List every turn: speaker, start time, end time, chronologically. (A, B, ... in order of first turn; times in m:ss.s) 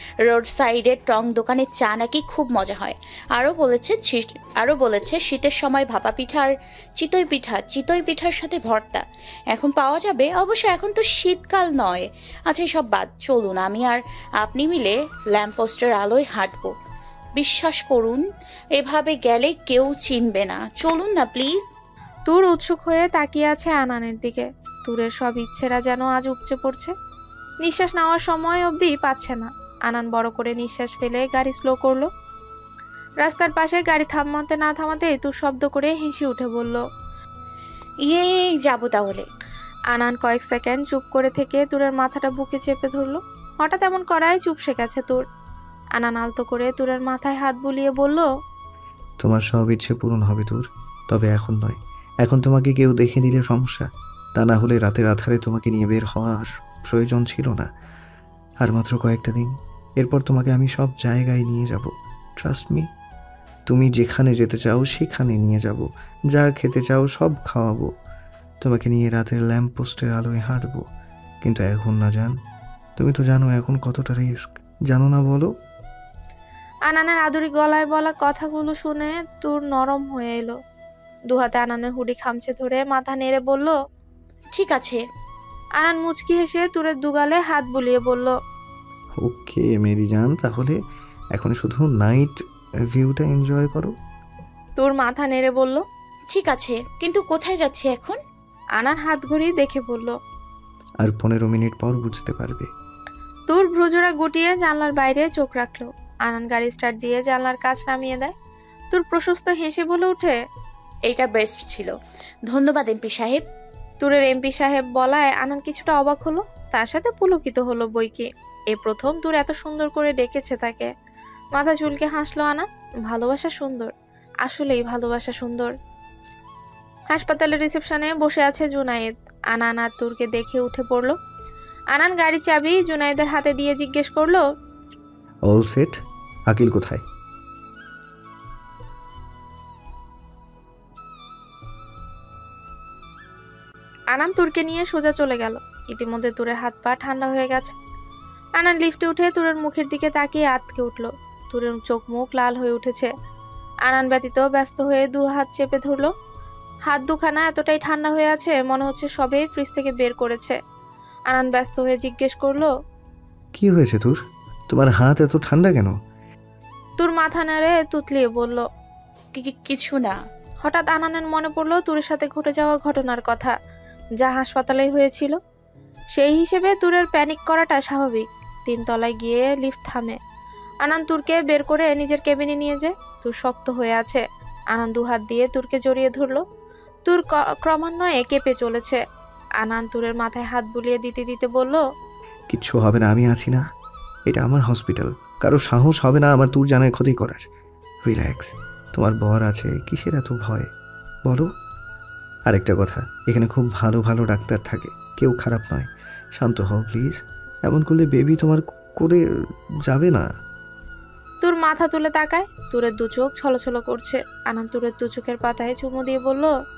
0:00.3-0:16.7 A
0:17.4-0:18.2 A
0:18.8-0:21.6 A
0:22.3-0:26.9 B
0:27.6-0:32.1 B
0:33.2-0:36.8 B
0:38.0-0:39.3 A
0:39.9-0:45.2 B
0:45.9-0:48.3 B
0:49.2-0:57.7 C
0:58.6-1:02.9 C
1:03.7-1:07.9 C
1:08.6-1:10.8 C
1:11.4-1:12.3 C
1:13.0-1:15.5 C
1:16.9-1:20.6 B
1:21.3-1:23.7 B
1:24.5-1:25.0 A
1:25.8-1:28.3 B
1:29.2-1:30.8 C
1:31.3-1:32.4 C
1:32.9-1:33.9 C
1:34.8-1:35.8 B
1:36.3-1:38.2 A
1:38.8-1:40.1 B
1:41.0-1:42.7 C
1:43.5-1:48.3 B
1:48.9-1:50.4 B
1:51.1-1:51.9 A
1:52.5-1:53.4 A
1:54.0-2:00.9 B
2:01.5-2:03.9 B
2:04.4-2:05.7 B
2:07.1-2:11.1 B
2:11.9-2:14.4 B
2:15.5-2:16.0 C
2:16.5-2:17.0 C
2:24.1-2:27.7 B
2:28.6-2:33.1 B
2:33.9-2:36.1 B
2:36.9-2:40.6 B
2:41.3-2:42.7 B
2:43.6-2:44.2 C
2:44.7-2:45.9 C
2:47.0-2:48.6 B
2:49.3-2:50.2 A
2:50.6-2:53.5 B
2:54.2-2:55.4 B
2:56.1-3:00.2 B
3:00.8-3:06.4 B
3:07.0-3:09.0 B
3:09.6-3:11.8 B
3:12.5-3:13.6 C
3:14.3-3:17.4 C
3:18.0-3:20.7 C
3:22.5-3:29.2 C
3:29.9-3:30.2 C
3:31.4-3:36.5 B